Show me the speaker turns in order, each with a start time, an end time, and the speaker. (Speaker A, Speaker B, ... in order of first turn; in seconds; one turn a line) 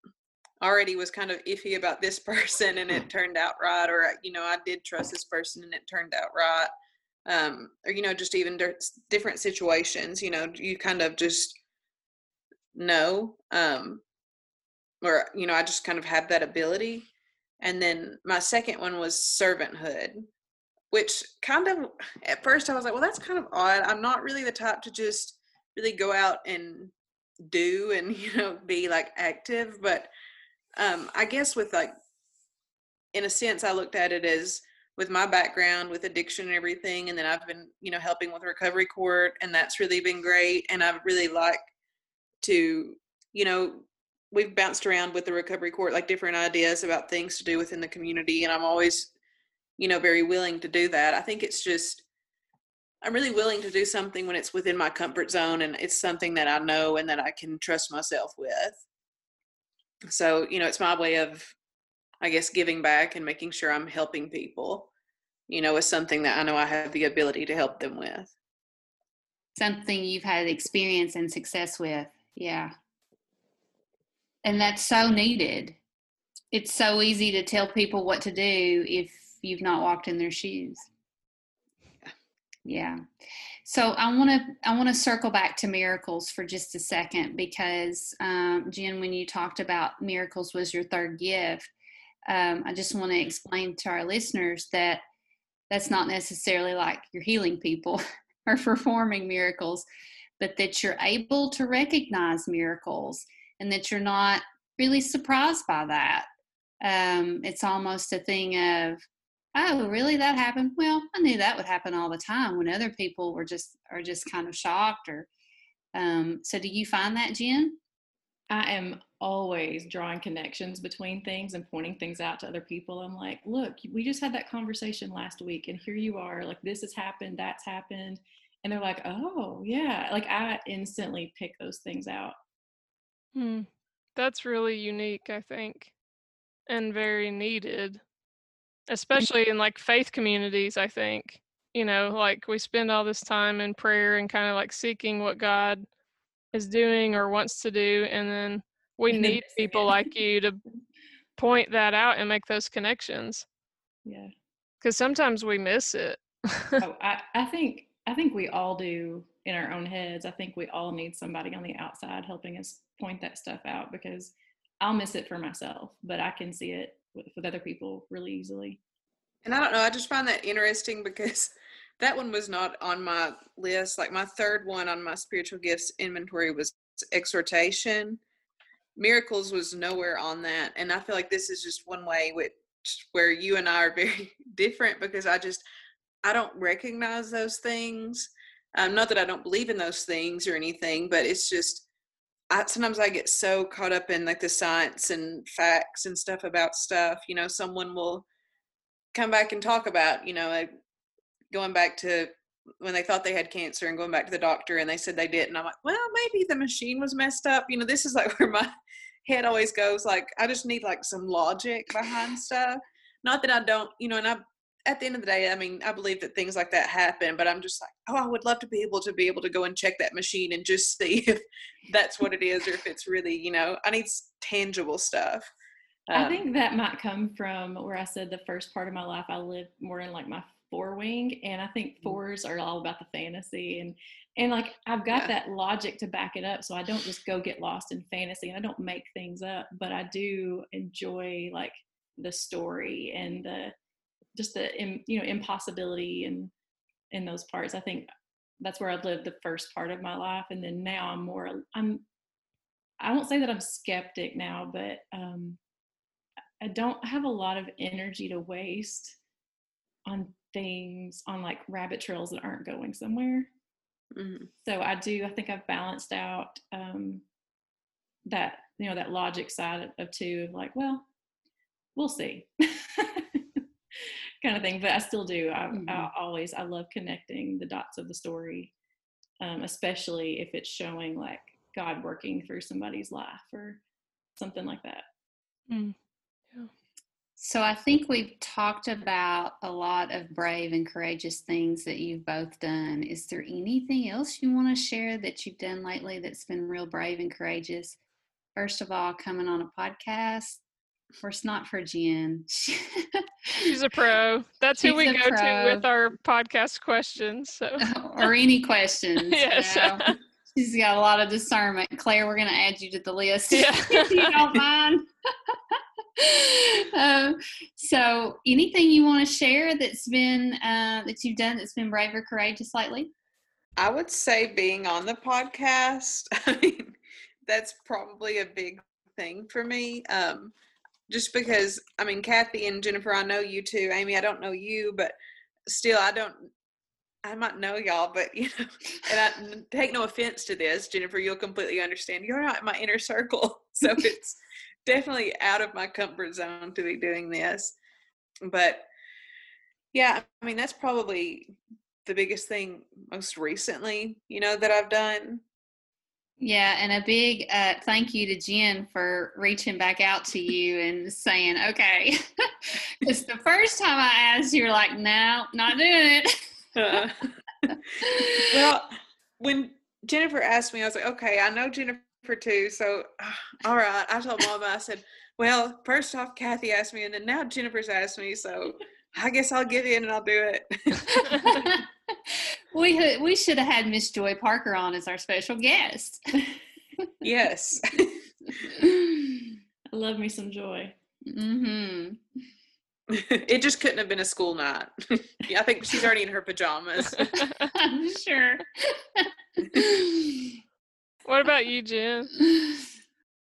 Speaker A: 0.6-6.7
Speaker A: 7.2-11.6
Speaker A: 12.7-14.0
Speaker A: 15.0-17.1
Speaker A: 17.6-20.3
Speaker A: 20.9-26.9
Speaker A: 27.5-30.1
Speaker A: 30.8-31.9
Speaker A: 33.1-41.6
Speaker A: 42.4-49.1
Speaker A: 49.8-52.0
Speaker A: 53.0-58.8
Speaker A: 60.1-61.5
Speaker A: 62.2-64.9
Speaker A: 65.5-68.3
Speaker B: 69.5-72.7
Speaker B: 74.4-75.8
Speaker B: 76.5-80.9
Speaker B: 82.6-83.0
Speaker B: 83.6-91.7
Speaker B: 92.3-95.0
Speaker B: 95.7-99.8
Speaker B: 100.4-106.3
Speaker B: 106.8-109.0
Speaker B: 109.5-115.3
Speaker B: 115.9-117.8
Speaker C: 118.5-132.3
Speaker D: 133.3-135.9
Speaker D: 136.7-138.0
Speaker D: 138.9-145.8
Speaker D: 146.5-150.6
Speaker C: 149.1-150.1
Speaker D: 151.4-153.4
Speaker C: 154.0-154.3
Speaker D: 154.8-156.8
Speaker C: 156.8-168.8
Speaker A: 169.4-178.2
Speaker A: 178.9-185.6
Speaker A: 186.2-191.8
Speaker A: 192.5-198.2
Speaker A: 199.1-200.7
Speaker A: 201.5-208.7
Speaker A: 209.2-225.5
Speaker A: 226.1-226.4
Speaker C: 226.1-243.7
Speaker C: 244.3-246.5
Speaker C: 247.1-248.1
Speaker C: 248.6-252.0
Speaker C: 253.0-255.6
Speaker C: 256.6-259.2
Speaker C: 260.1-263.5
Speaker A: 264.1-264.5
Speaker C: 264.6-267.2
Speaker C: 268.2-271.1
Speaker C: 271.9-278.7
Speaker C: 279.4-283.8
Speaker C: 284.4-285.0
Speaker D: 285.7-285.9
Speaker B: 287.4-298.0
Speaker B: 298.5-300.6
Speaker B: 301.2-303.7
Speaker D: 303.6-307.8
Speaker B: 304.8-305.8
Speaker B: 307.8-315.6
Speaker D: 309.3-310.2
Speaker D: 313.5-314.3
Speaker B: 316.2-323.1
Speaker A: 323.8-326.9
Speaker A: 327.5-330.5
Speaker A: 331.1-335.1
Speaker A: 335.7-336.5
Speaker A: 337.2-347.8
Speaker A: 348.5-348.9
Speaker A: 349.9-355.4
Speaker B: 356.4-366.5
Speaker A: 366.7-367.3
Speaker B: 368.0-368.5
Speaker A: 368.3-381.6
Speaker B: 381.1-386.2
Speaker A: 387.2-388.2
Speaker C: 389.9-390.9
Speaker B: 391.2-392.2
Speaker A: 393.1-397.5
Speaker B: 397.7-400.5
Speaker D: 401.2-402.3